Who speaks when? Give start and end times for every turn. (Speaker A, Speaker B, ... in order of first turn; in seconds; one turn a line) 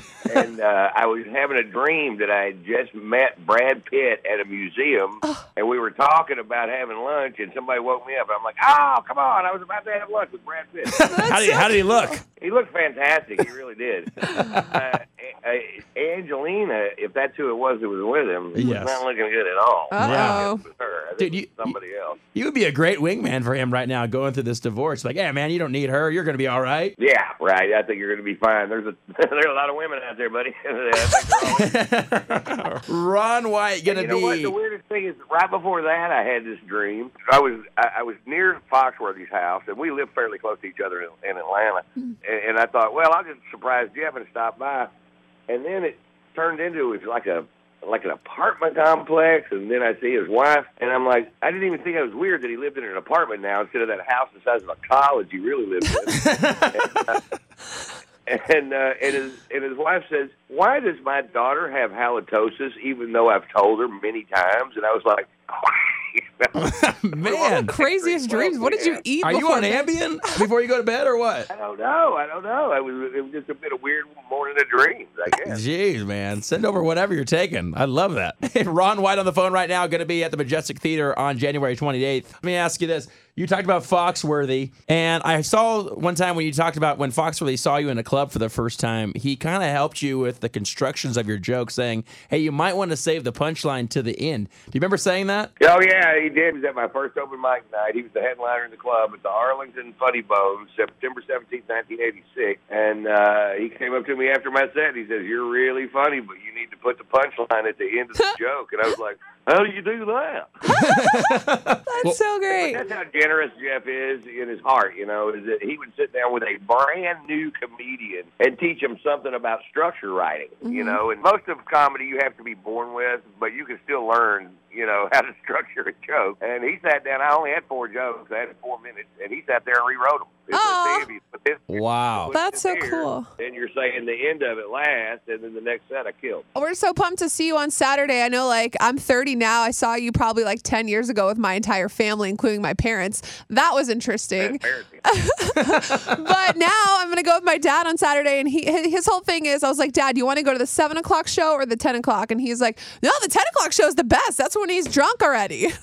Speaker A: 0.3-11.0
Speaker B: 10.9-12.2
Speaker C: 11.0-12.2
Speaker A: 12.4-22.2
Speaker B: 14.2-14.8
Speaker B: 18.5-19.0
Speaker C: 19.9-20.6
Speaker B: 20.0-20.4
Speaker B: 21.2-21.8
Speaker B: 22.4-26.9
Speaker A: 27.0-31.8
Speaker B: 31.0-34.5
Speaker A: 33.9-44.9
Speaker A: 45.5-57.2
Speaker B: 56.1-57.1
Speaker A: 58.3-69.0
Speaker B: 66.5-67.7
Speaker C: 67.3-69.9
Speaker B: 69.2-71.5
Speaker A: 71.5-75.6
Speaker B: 75.3-95.5
Speaker A: 95.6-110.5
Speaker B: 110.7-112.2
Speaker C: 110.7-112.8
Speaker A: 112.5-136.4
Speaker C: 120.6-121.0
Speaker C: 130.5-131.1
Speaker B: 131.7-132.3
Speaker C: 132.3-133.2
Speaker C: 136.5-155.7
Speaker A: 144.4-145.0